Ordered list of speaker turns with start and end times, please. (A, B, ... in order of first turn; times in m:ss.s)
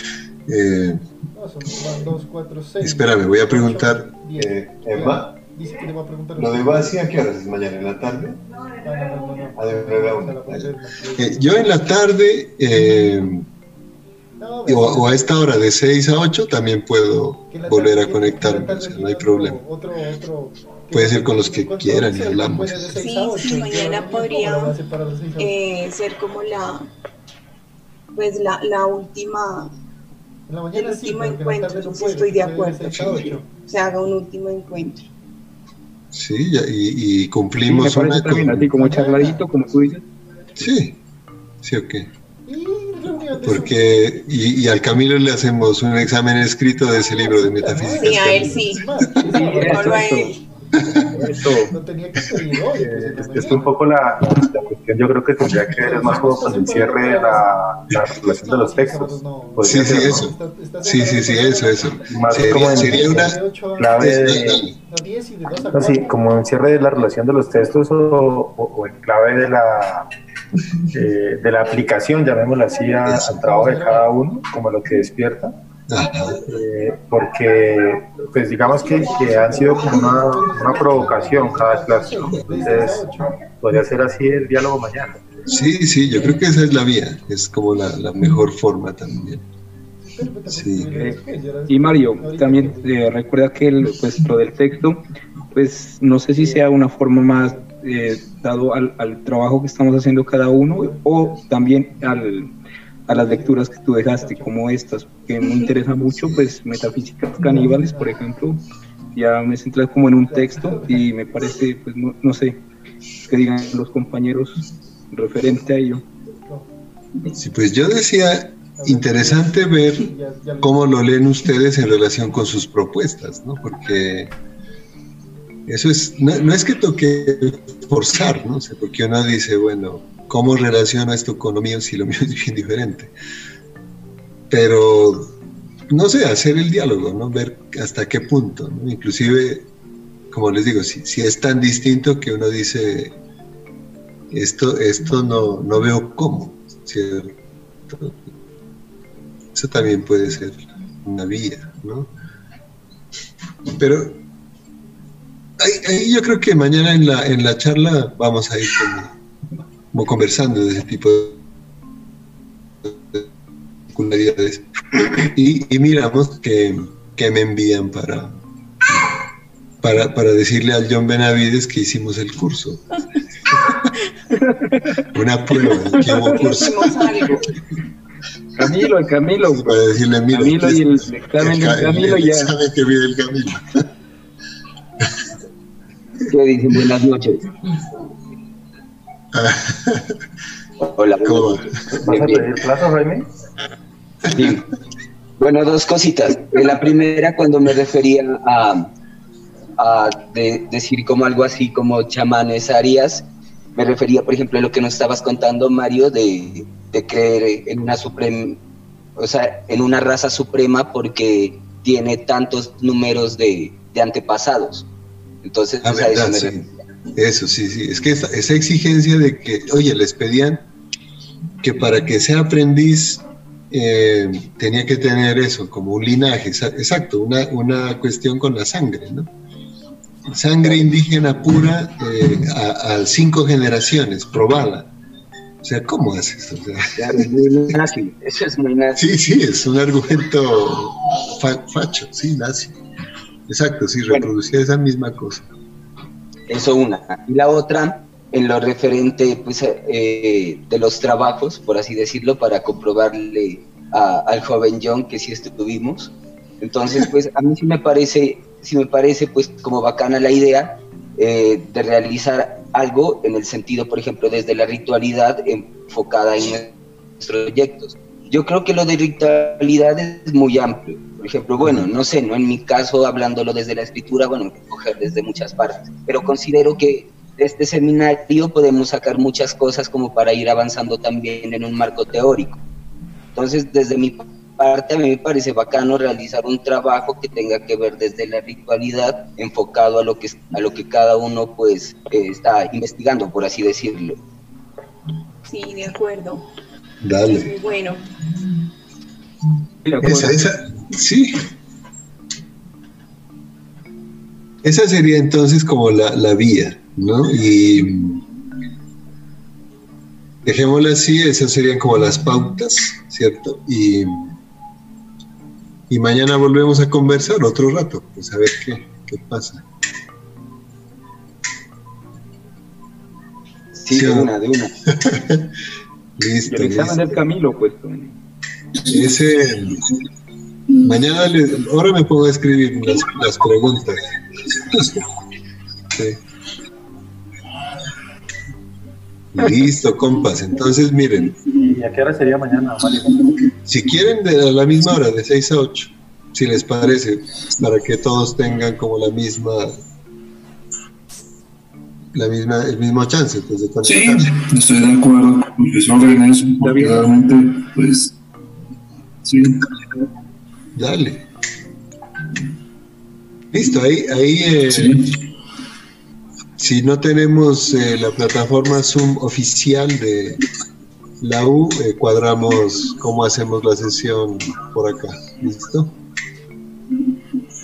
0:00.5-0:01.0 A
0:01.3-0:07.0 B
0:02.8-0:05.4 A
0:06.4-0:08.4 A
0:08.8-0:11.8 B
0:09.5-0:13.4 A
0:14.4-0:15.2 B
0:14.6-0:19.6 A
0:17.5-0:25.5 B
0:20.9-0:23.1 A
0:23.0-0:24.8 C
0:25.4-0:26.9 C
0:28.2-0:29.7 C
0:30.5-0:33.5 B
0:30.7-0:35.0 C
0:36.1-0:38.7 A
0:37.6-0:40.0 D
0:38.3-0:39.4 B
0:40.6-0:41.0 A
0:41.6-0:42.1 A
0:42.5-0:43.9 B
0:43.4-0:49.1 A
0:47.4-0:50.2 B
0:47.9-0:50.4 C
0:49.3-0:50.3 D
0:50.8-0:53.9 B
0:50.9-0:51.2 A
0:51.1-0:51.7 D
0:52.7-1:00.3 E
0:55.7-0:57.5 B
0:58.2-1:06.2 B
0:59.6-1:03.4 A
1:02.1-1:04.7 E
1:04.0-1:04.7 A
1:05.7-1:10.0 E
1:10.9-1:15.5 E
1:13.0-1:13.8 A
1:13.3-1:14.4 B
1:15.9-1:16.4 A
1:16.4-1:25.2 E
1:18.6-1:23.4 B
1:22.2-1:22.9 A
1:25.5-1:29.4 A
1:30.0-1:33.2 B
1:30.5-1:30.9 A
1:31.7-1:42.5 D
1:36.4-1:36.8 B
1:37.3-1:37.7 B
1:40.6-1:41.5 B
1:43.0-1:44.6 B
1:43.1-1:48.6 D
1:46.2-1:46.6 A
1:47.5-1:48.2 B
1:49.1-1:52.6 D
1:50.2-1:51.1 B
1:53.2-1:54.6 D
1:55.1-1:56.0 D
1:57.3-2:04.3 A
1:58.8-2:00.8 B
2:05.7-2:13.1 A
2:14.5-2:15.3 A
2:15.9-2:19.7 A
2:20.3-2:23.2 A
2:24.3-2:28.3 A
2:29.5-2:32.1 A
2:33.7-2:34.2 A
2:35.6-2:39.1 A
2:39.9-2:41.4 A
2:42.8-2:43.3 A
2:43.9-2:48.3 A
2:48.9-2:49.2 A
2:49.8-2:52.8 A
2:53.5-2:53.8 A
2:55.1-2:57.4 A
2:56.0-2:57.5 C
2:58.6-2:59.7 D
2:59.4-3:03.8 A
3:00.3-3:02.5 D
3:06.3-3:07.5 F
3:09.3-3:10.2 A
3:10.8-3:12.5 F
3:11.2-3:11.7 A
3:12.0-3:13.3 E
3:14.3-3:14.7 F
3:15.4-3:18.9 F
3:19.8-3:23.2 F
3:23.8-3:28.6 F
3:29.2-3:34.9 F
3:35.4-3:36.5 F
3:35.8-3:40.6 A
3:41.6-3:49.3 A
3:50.3-3:54.9 A
3:55.6-3:57.2 A
3:57.0-3:59.0 F
3:59.0-4:02.8 A
4:03.5-4:05.5 A
4:06.5-4:42.6 F
4:43.3-4:54.2 F
4:55.4-4:56.4 C
4:57.0-4:57.5 A
4:57.2-4:58.0 C
4:59.8-5:00.5 D
5:00.0-5:01.3 A
5:04.6-5:08.3 A
5:10.4-5:14.4 A
5:15.9-5:19.6 A
5:23.8-5:24.7 F
5:23.9-5:24.3 A
5:24.9-5:25.5 A
5:26.2-5:27.2 A
5:26.5-5:28.1 D
5:28.8-5:29.9 A
5:30.7-5:35.0 A
5:35.9-5:36.2 A
5:39.3-5:41.7 A
5:41.6-5:43.1 E
5:43.6-5:49.7 A
5:52.1-5:54.3 A
5:53.8-5:58.1 G
5:59.2-5:59.7 G
6:00.7-6:01.2 A
6:03.5-6:05.0 A
6:04.7-6:05.0 G
6:06.6-6:10.4 A
6:11.2-6:16.0 A